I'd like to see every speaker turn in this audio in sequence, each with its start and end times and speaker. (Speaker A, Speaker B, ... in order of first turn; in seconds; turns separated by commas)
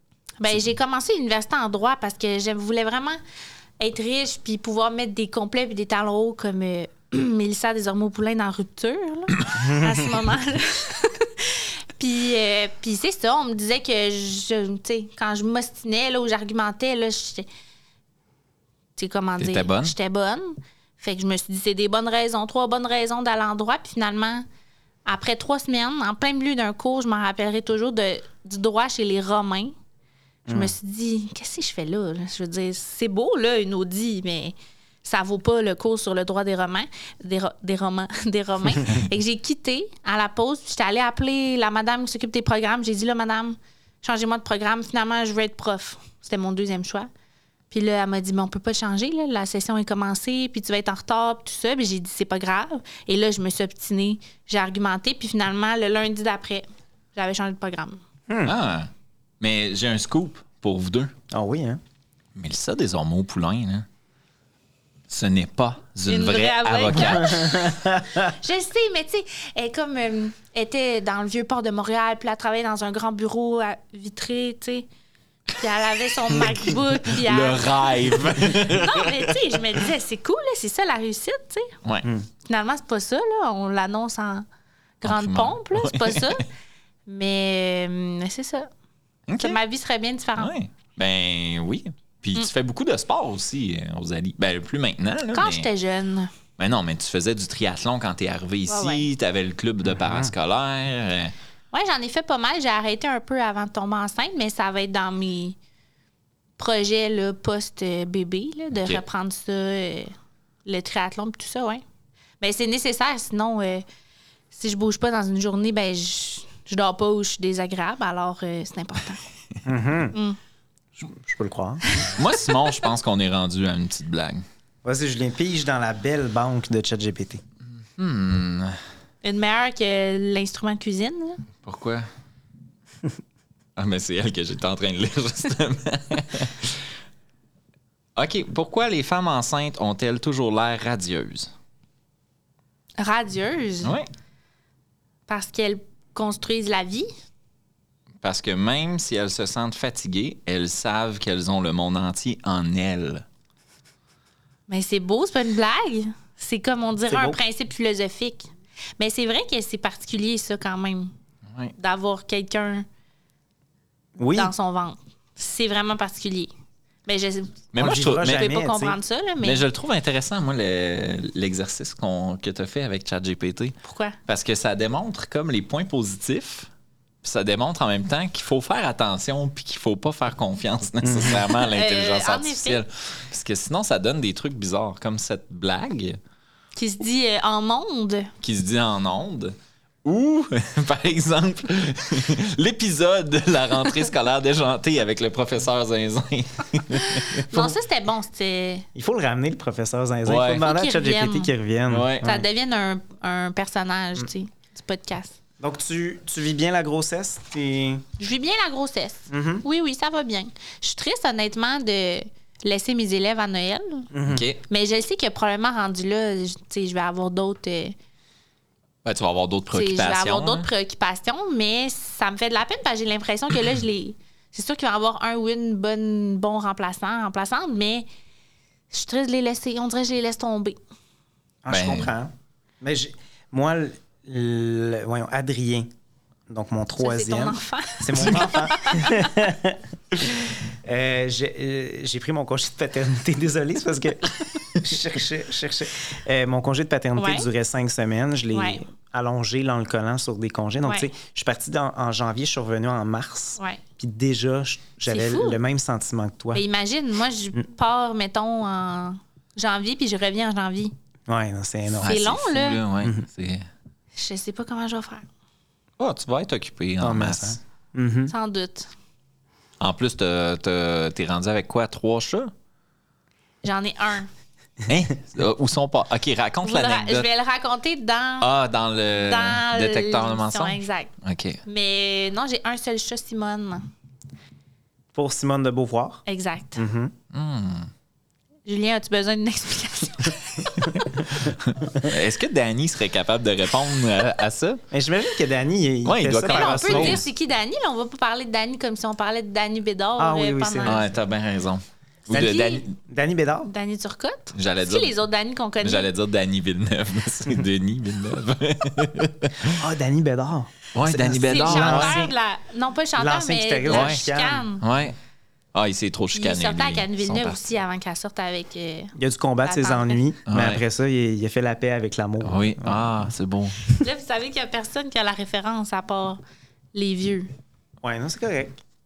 Speaker A: 0.4-3.2, Speaker A: 3.8-17.5, Speaker B: 9.6-10.1, Speaker A: 19.0-24.5, Speaker C: 19.4-19.9, Speaker A: 25.1-29.7, Speaker B: 30.5-30.7, Speaker A: 30.5-47.1, Speaker A: 47.7-58.0, Speaker B: 58.3-58.5, Speaker C: 58.5-58.9, Speaker C: 59.4-61.1, Speaker B: 61.3-61.8, Speaker C: 62.4-63.9, Speaker C: 65.1-67.6, Speaker A: 66.1-74.9, Speaker B: 67.2-68.2, Speaker A: 75.5-81.8, Speaker C: 76.4-79.8, Speaker A: 82.5-84.5, Speaker A: 85.0-86.5, Speaker C: 85.0-86.4, Speaker A: 87.1-88.7, Speaker C: 89.3-89.6, Speaker A: 89.4-90.5, Speaker C: 90.4-95.7, Speaker A: 95.3-96.3, Speaker C: 96.6-101.3, Speaker A: 98.7-99.1, Speaker B: 100.0-100.3, Speaker A: 101.7-105.6, Speaker A: 106.6-110.1, Speaker C: 108.8-109.0, Speaker A: 110.7-111.8, Speaker A: 112.4-113.8, Speaker A: 114.5-119.2, Speaker B: 119.7-120.2, Speaker B: 121.0-121.8, Speaker A: 121.8-122.8, Speaker C: 122.1-124.4, Speaker B: 124.8-127.4, Speaker C: 128.0-128.8, Speaker A: 129.2-131.4, Speaker C: 131.6-132.1, Speaker C: 133.8-136.9, Speaker C: 138.2-141.5, Speaker A: 143.0-144.0, Speaker A: 145.3-147.1, Speaker C: 148.2-153.2, Speaker A: 154.7-161.1, Speaker B: 157.1-157.4, Speaker A: 161.8-162.9, Speaker B: 164.2-164.5, Speaker A: 164.3-166.5, Speaker A: 167.1-167.6, Speaker C: 167.7-168.5, Speaker B: 167.8-169.0, Speaker A: 168.2-169.7, Speaker C: 169.4-176.7, Speaker A: 173.8-174.2, Speaker C: 177.2-186.2, Speaker B: 181.0-181.4, Speaker A: 181.3-182.8, Speaker A: 186.8-188.3, Speaker C: 188.4-197.4, Speaker A: 197.1-198.9, Speaker B: 198.9-202.5, Speaker C: 200.3-200.7, Speaker A: 200.6-201.5, Speaker C: 201.9-202.3, Speaker A: 202.2-205.4, Speaker B: 205.6-208.1, Speaker A: 208.2-214.1, Speaker B: 209.3-209.7, Speaker B: 214.1-214.5, Speaker C: 214.3-214.6, Speaker A: 214.7-218.0, Speaker C: 219.1-220.7, Speaker A: 219.7-228.1, Speaker A: 228.9-230.8, Speaker B: 231.6-235.9, Speaker C: 231.7-232.1, Speaker B: 236.5-256.6, Speaker A: 237.0-239.4, Speaker C: 238.2-238.6, Speaker A: 247.2-247.5, Speaker A: 248.5-248.8, Speaker A: 255.1-255.6, Speaker A: 256.5-260.9, Speaker B: 261.3-262.2, Speaker C: 262.0-263.7, Speaker A: 262.1-262.8, Speaker A: 264.2-265.3, Speaker C: 266.0-267.6, Speaker B: 267.0-268.3, Speaker A: 268.3-268.9, Speaker C: 269.8-272.5, Speaker A: 273.6-274.3, Speaker C: 274.9-277.3, Speaker A: 276.6-278.5, Speaker C: 278.4-281.6, Speaker A: 279.1-281.1, Speaker A: 281.7-283.9, Speaker B: 285.1-286.2, Speaker A: 286.3-286.8, Speaker B: 286.8-287.1, Speaker C: 287.3-287.9, Speaker A: 288.7-291.3, Speaker C: 291.4-294.8, Speaker B: 294.9-297.2, Speaker C: 296.1-297.3, Speaker A: 296.5-301.1, Speaker B: 300.2-301.1, Speaker C: 300.9-302.9, Speaker A: 302.3-302.8, Speaker B: 302.3-303.7, Speaker A: 303.7-306.1, Speaker C: 304.6-305.1, Speaker C: 305.8-309.8, Speaker B: 309.7-312.3, Speaker C: 310.9-312.2, Speaker A: 311.4-314.8, Speaker B: 313.2-314.7, Speaker C: 313.9-314.2, Speaker C: 314.8-315.1, Speaker C: 315.7-317.6, Speaker A: 316.4-320.2, Speaker B: 319.2-323.2, Speaker C: 320.5-320.8, Speaker C: 322.4-324.0, Speaker A: 323.9-326.4, Speaker A: 326.9-327.5, Speaker B: 328.0-328.8